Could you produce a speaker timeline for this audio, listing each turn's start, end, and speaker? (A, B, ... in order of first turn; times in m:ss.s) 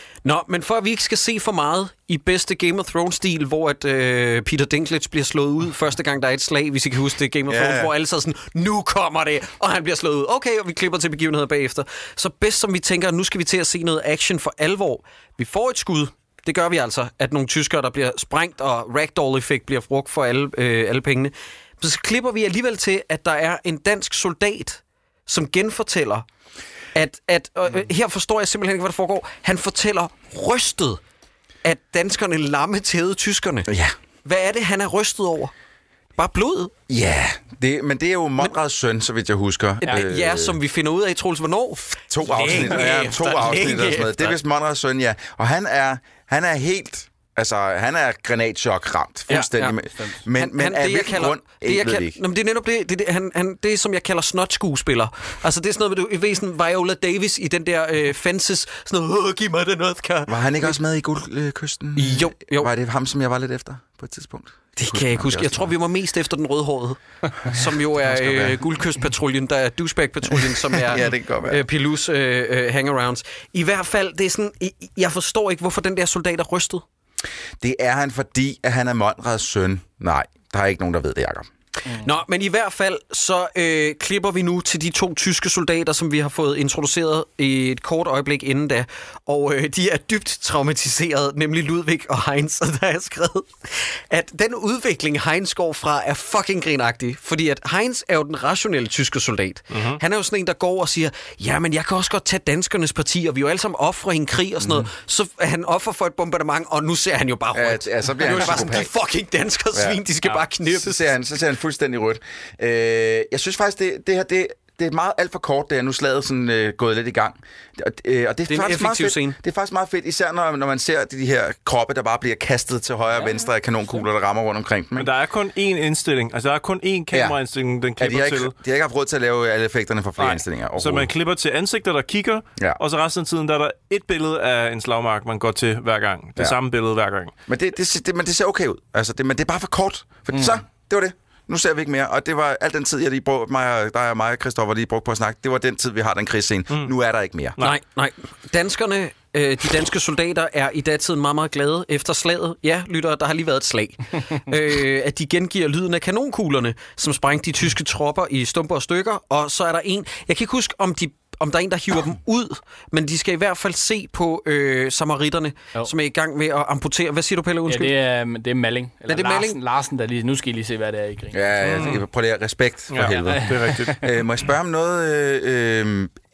0:00.2-0:26.3 A
0:07.5-0:07.9 B
0:27.0-0:31.0 A
0:31.6-0:33.7 A
0:33.7-0:34.0 B
0:34.2-0:35.5 A
0:36.2-0:36.8 A
0:36.9-0:40.6 B
0:39.9-0:44.4 A
0:42.1-0:52.2 B
0:49.3-1:00.8 A
1:00.3-1:05.7 B
1:02.0-1:02.7 A
1:04.8-1:16.8 A
1:07.5-1:08.6 B
1:10.7-1:11.6 B
1:17.6-1:21.5 B
1:22.0-1:51.1 A
1:39.7-1:40.0 C
1:44.6-1:44.9 B
1:47.5-1:48.9 B
1:49.7-2:05.1 B
1:58.5-1:59.4 A
2:05.0-2:08.5 C
2:08.0-2:11.1 B
2:10.2-2:17.3 C
2:17.5-2:27.6 B
2:27.6-2:48.0 A
2:47.7-2:51.4 D
2:49.1-2:49.6 A
2:51.3-2:56.2 B
2:51.6-2:52.0 C
2:52.9-2:54.0 C
2:53.0-2:54.0 D